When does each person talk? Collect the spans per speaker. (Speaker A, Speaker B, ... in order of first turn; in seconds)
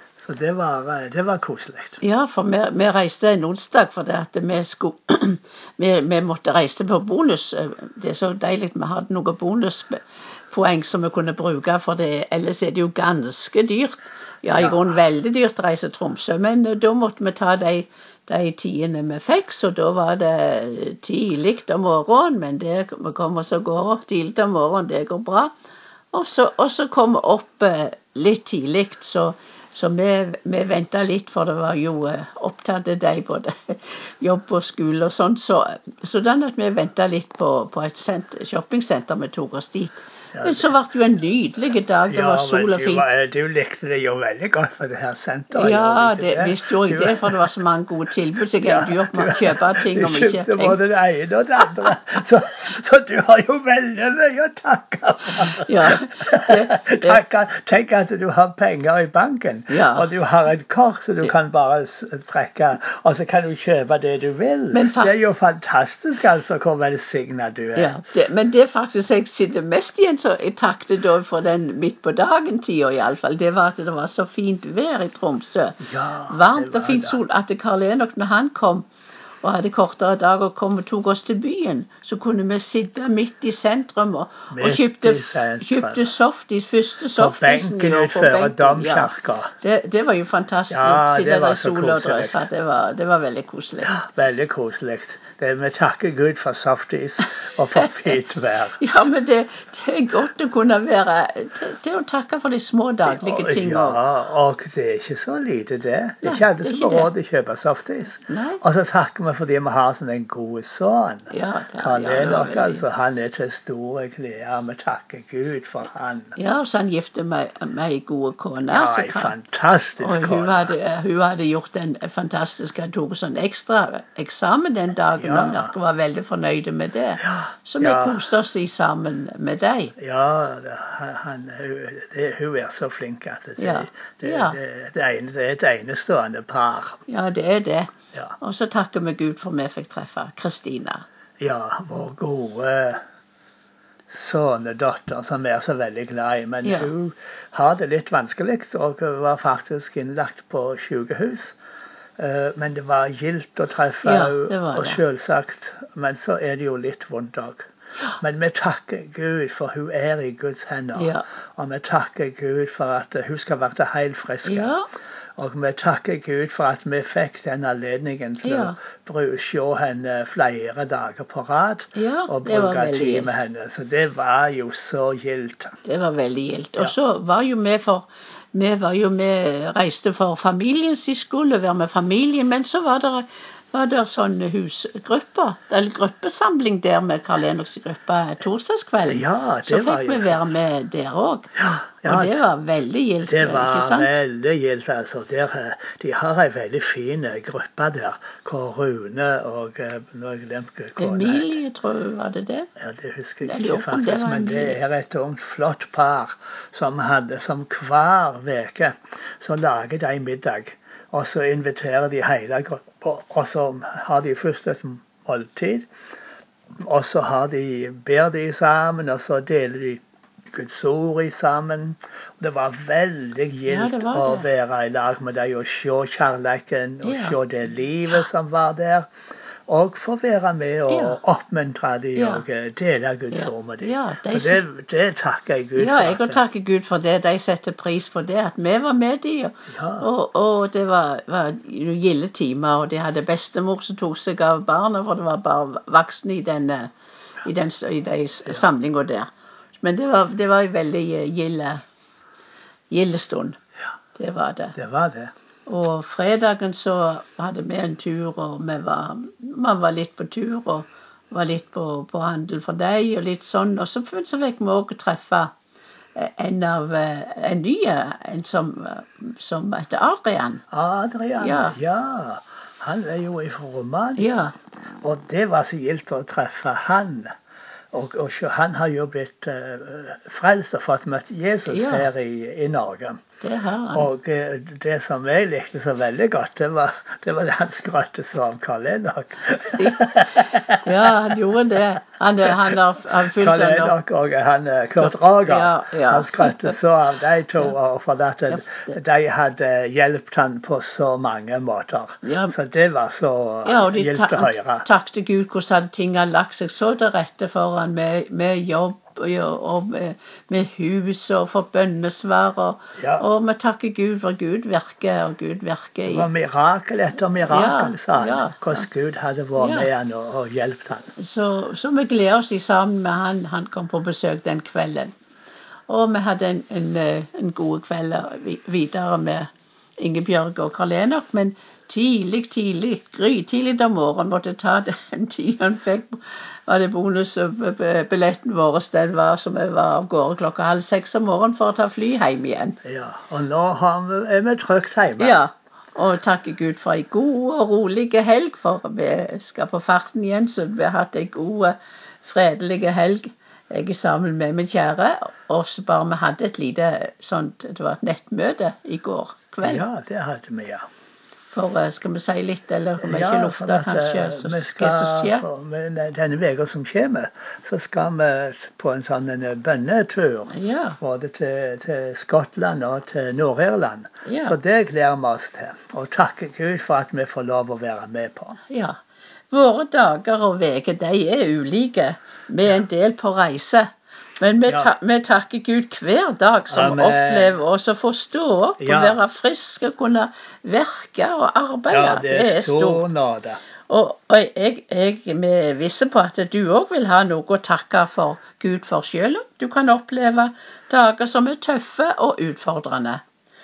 Speaker A: 0.2-2.0, 14.5-14.9, 40.3-40.7, 42.1-47.5, 48.6-68.0, 75.8-77.2, 84.5-86.1, 87.2-89.5, 90.7-92.5, 93.9-99.1, 103.1-116.4, 118.7-120.8, 125.2-125.7, 127.2-128.3, 130.0-137.0, 141.4-143.0, 144.1-151.6, 152.2-164.8, 165.4-175.8, 189.1-190.4, 191.6-192.4, 193.3-201.6, 202.8-215.9, 216.8-229.1, 229.7-236.4, 239.7-240.1, 254.8-255.3, 270.7-274.3, 275.0-277.3, 277.9-283.2, 283.9-291.8, 292.4-304.9, 313.0-313.3, 316.1-321.1, 342.8-345.4, 359.6-360.8, 363.0-378.6, 384.7-384.9, 386.7-387.6, 388.8-389.2, 391.9-393.6
Speaker B: 2.0-10.0, 10.5-25.5, 26.1-43.1, 45.5-50.8, 55.6-57.2, 59.7-60.1, 64.7-65.1, 67.8-78.9, 79.4-94.0, 97.8-98.2, 98.8-104.0, 106.2-107.1, 108.3-108.6, 111.3-112.8, 116.4-119.3, 120.0-129.9, 133.6-134.6, 137.1-141.1, 146.6-146.9, 154.0-155.0, 160.9-161.2, 164.4-164.9, 168.4-168.8, 171.9-173.3, 175.8-191.5, 192.1-194.1, 201.0-202.7, 203.4-204.8, 223.7-224.5, 227.0-227.4, 230.9-231.2, 232.2-232.4, 233.3-234.6, 235.8-246.9, 247.4-249.3, 249.8-251.8, 252.9-253.6, 254.2-254.8, 255.7-265.5, 266.1-270.6, 271.4-271.8, 274.2-274.5, 281.7-282.1, 283.4-284.1, 289.8-290.1, 290.8-293.9, 295.0-296.8, 298.5-299.0, 302.2-302.5, 303.6-316.3, 317.5-318.8, 319.6-319.9, 321.2-325.1, 325.9-329.5, 330.0-342.8, 345.2-359.9, 361.5-365.4, 370.5-371.0, 374.2-374.6, 378.7-379.0, 379.5-383.9, 384.4-393.0, 393.9-403.2